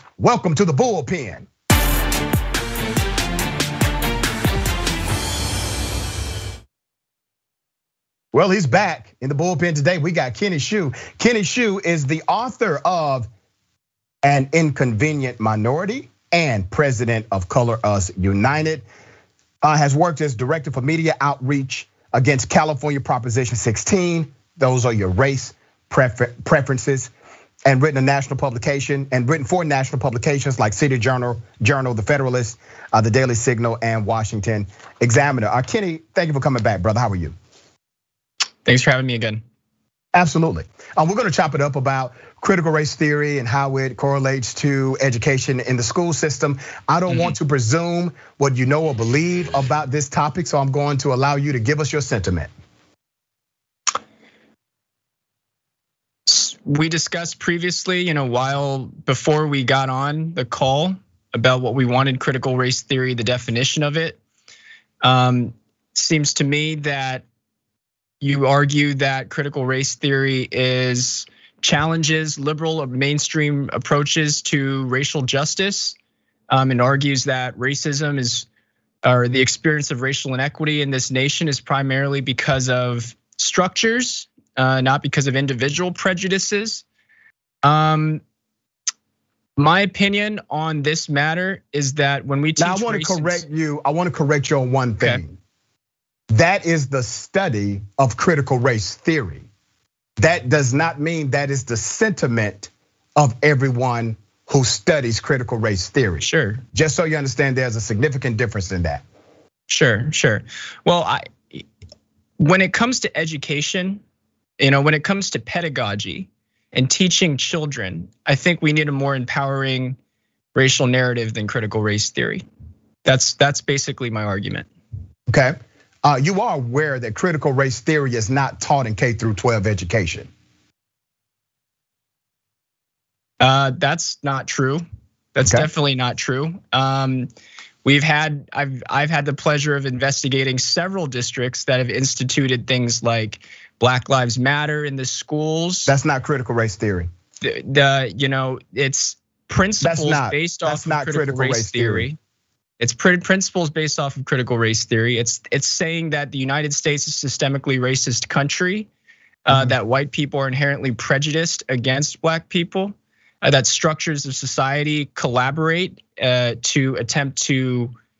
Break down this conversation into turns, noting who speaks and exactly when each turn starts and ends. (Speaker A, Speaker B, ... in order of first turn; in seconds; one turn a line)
Speaker A: 0.2-1.5
Speaker A: 8.3-13.3
Speaker A: 14.2-18.9
Speaker A: 19.6-27.1
Speaker A: 27.6-37.3
Speaker B: 38.6-39.4
Speaker A: 40.1-52.5
Speaker B: 47.1-47.3
Speaker B: 56.2-64.2
Speaker B: 65.0-67.2
Speaker B: 68.2-76.0
Speaker B: 76.5-78.5
Speaker B: 79.0-86.8
Speaker B: 87.6-88.2
Speaker B: 89.6-93.4
Speaker A: 92.6-95.4
Speaker A: 96.3-99.5
Speaker A: 100.2-109.0
Speaker B: 106.2-106.6
Speaker B: 109.7-111.7
Speaker B: 112.4-114.0
Speaker B: 114.6-120.0
Speaker B: 120.5-122.4
Speaker B: 123.0-124.7
Speaker A: 125.3-130.3
Speaker B: 133.4-134.8
Speaker B: 135.3-137.3
Speaker B: 137.8-145.9
Speaker A: 145.9-147.1
Speaker B: 147.4-152.2
Speaker A: 149.8-152.1
Speaker B: 152.8-158.9
Speaker B: 159.4-167.9